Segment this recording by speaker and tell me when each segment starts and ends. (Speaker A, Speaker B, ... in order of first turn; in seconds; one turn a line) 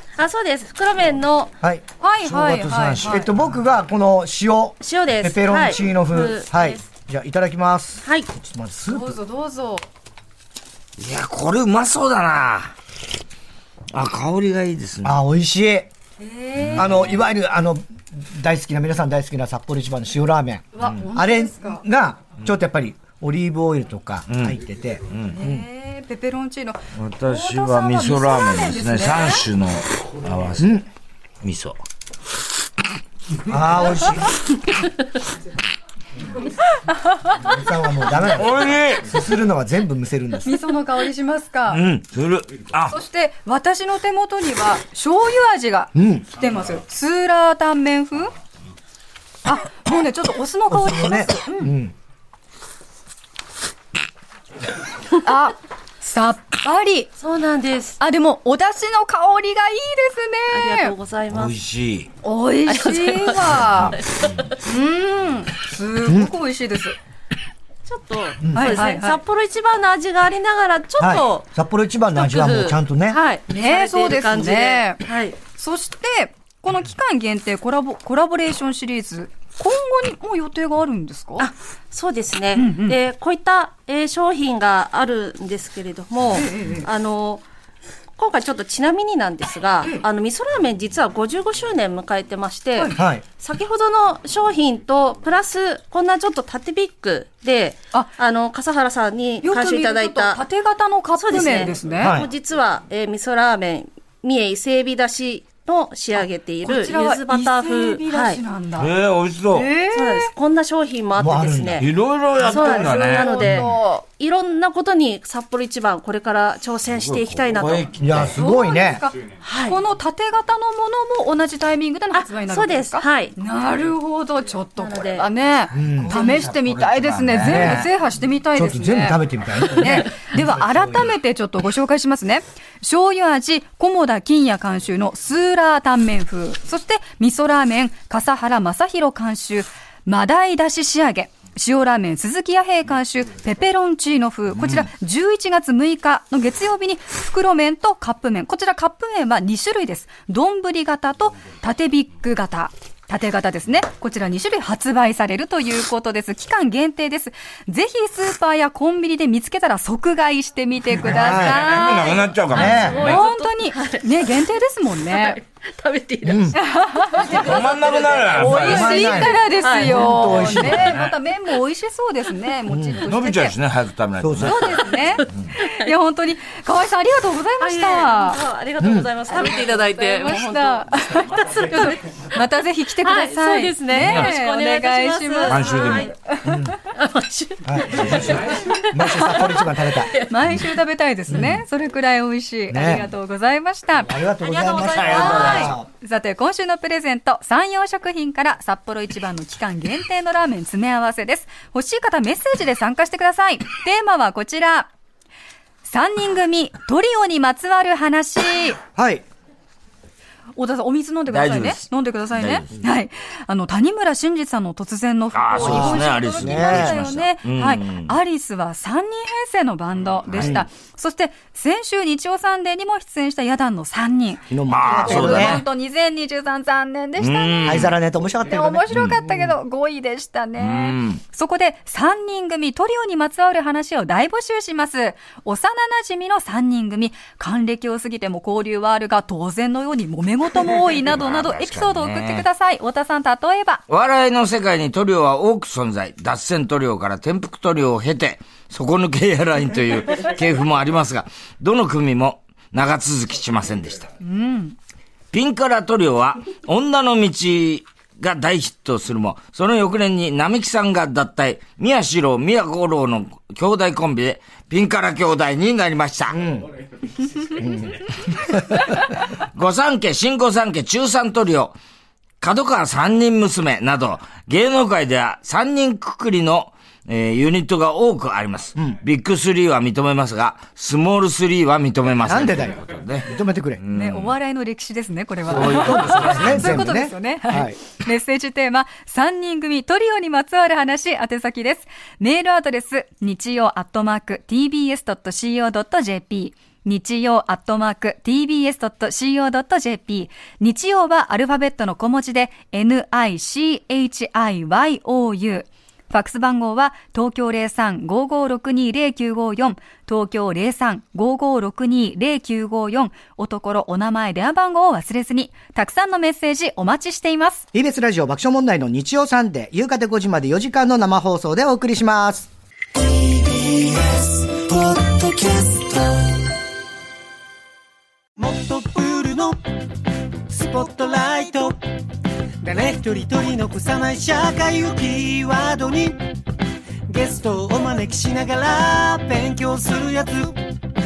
Speaker A: 0.2-1.5
Speaker B: 2.0-3.3
Speaker C: 2.2-3.3
Speaker D: 3.0-9.2
Speaker A: 4.8-6.8
Speaker A: 8.0-8.3
Speaker B: 8.9-9.8
Speaker C: 11.0-12.7
Speaker C: 13.9-15.2
Speaker D: 15.0-15.9
Speaker B: 16.2-17.1
Speaker C: 16.6-17.1
Speaker D: 16.8-25.6
Speaker B: 20.7-21.8
Speaker C: 24.3-25.4
Speaker B: 25.3-29.5
Speaker C: 26.9-30.8
Speaker D: 30.6-30.9
Speaker C: 31.4-31.8
Speaker D: 33.4-34.3
Speaker D: 37.4-40.6
Speaker C: 38.2-39.1
Speaker B: 40.4-41.8
Speaker C: 41.7-43.0
Speaker B: 42.9-48.3
Speaker D: 45.9-46.3
Speaker B: 49.4-51.7
Speaker D: 50.7-51.9
Speaker B: 55.2-57.1
Speaker A: 57.2-58.0
Speaker B: 58.0-60.9
Speaker A: 60.5-61.6
Speaker C: 61.3-62.1
Speaker B: 62.2-64.0
Speaker A: 62.7-64.5
Speaker C: 63.7-64.4
Speaker B: 64.6-67.0
Speaker D: 66.0-66.3
Speaker A: 67.8-71.5
Speaker D: 68.4-68.8
Speaker B: 68.5-69.2
Speaker D: 71.0-73.2
Speaker A: 72.2-75.4
Speaker B: 73.5-81.5
Speaker A: 81.4-87.4
Speaker B: 82.6-83.0
Speaker B: 86.3-86.9
Speaker A: 88.2-100.4
Speaker D: 92.9-93.2
Speaker B: 99.4-102.2
Speaker A: 101.2-108.4
Speaker D: 102.0-102.3
Speaker B: 106.6-108.9
Speaker C: 108.8-109.7
Speaker B: 109.5-110.3
Speaker A: 109.9-117.9
Speaker D: 111.2-111.8
Speaker C: 111.8-113.6
Speaker B: 112.4-114.0
Speaker C: 116.9-118.3
Speaker D: 118.0-119.0
Speaker B: 118.3-129.2
Speaker A: 119.4-119.8
Speaker A: 122.1-123.4
Speaker A: 124.8-125.3
Speaker D: 125.7-126.2
Speaker C: 125.8-127.9
Speaker D: 127.3-127.9
Speaker D: 128.5-130.8
Speaker B: 129.7-165.4
Speaker C: 144.6-144.9
Speaker D: 161.0-161.8
Speaker C: 161.1-163.2
Speaker A: 161.8-164.1
Speaker D: 162.5-163.1
Speaker A: 165.1-170.7
Speaker D: 166.2-166.6
Speaker B: 166.6-173.6
Speaker C: 167.2-169.2
Speaker D: 168.4-171.0
Speaker C: 170.7-171.1
Speaker D: 172.7-173.0
Speaker C: 173.1-175.5
Speaker D: 174.2-174.7
Speaker B: 174.4-178.4
Speaker A: 175.6-175.9
Speaker A: 177.6-182.0
Speaker D: 178.8-179.1
Speaker B: 179.3-186.7
Speaker A: 183.0-186.1
Speaker C: 184.0-184.3
Speaker C: 185.5-186.1
Speaker D: 186.4-186.8
Speaker A: 186.8-190.3
Speaker D: 187.6-190.1
Speaker C: 187.9-188.5
Speaker B: 190.2-194.2
Speaker D: 191.3-191.6
Speaker D: 192.7-193.1
Speaker D: 194.0-195.9
Speaker A: 194.4-195.8
Speaker C: 194.8-195.8
Speaker B: 195.1-204.9
Speaker B: 205.8-208.8
Speaker D: 208.9-209.2
Speaker B: 210.6-243.8
Speaker C: 211.3-212.8
Speaker C: 215.3-218.1
Speaker D: 215.6-217.1
Speaker C: 220.3-220.6
Speaker D: 220.3-220.7
Speaker D: 224.5-225.6
Speaker C: 224.7-225.6
Speaker C: 227.2-227.9
Speaker D: 227.7-229.5
Speaker C: 228.9-229.2
Speaker C: 230.6-231.2
Speaker C: 240.9-242.4
Speaker C: 243.9-254.1
Speaker B: 254.2-254.8
Speaker C: 255.3-266.4
Speaker D: 266.3-266.7
Speaker D: 267.5-268.8
Speaker C: 268.5-271.8
Speaker C: 272.4-284.4
Speaker D: 282.2-283.8
Speaker B: 283.9-317.6
Speaker D: 285.5-287.8
Speaker C: 285.5-286.8
Speaker D: 317.7-322.5
Speaker E: 322.9-326.5
Speaker E: 328.4-329.6
Speaker E: 330.5-331.8
Speaker E: 332.6-336.2
Speaker E: 337.1-340.6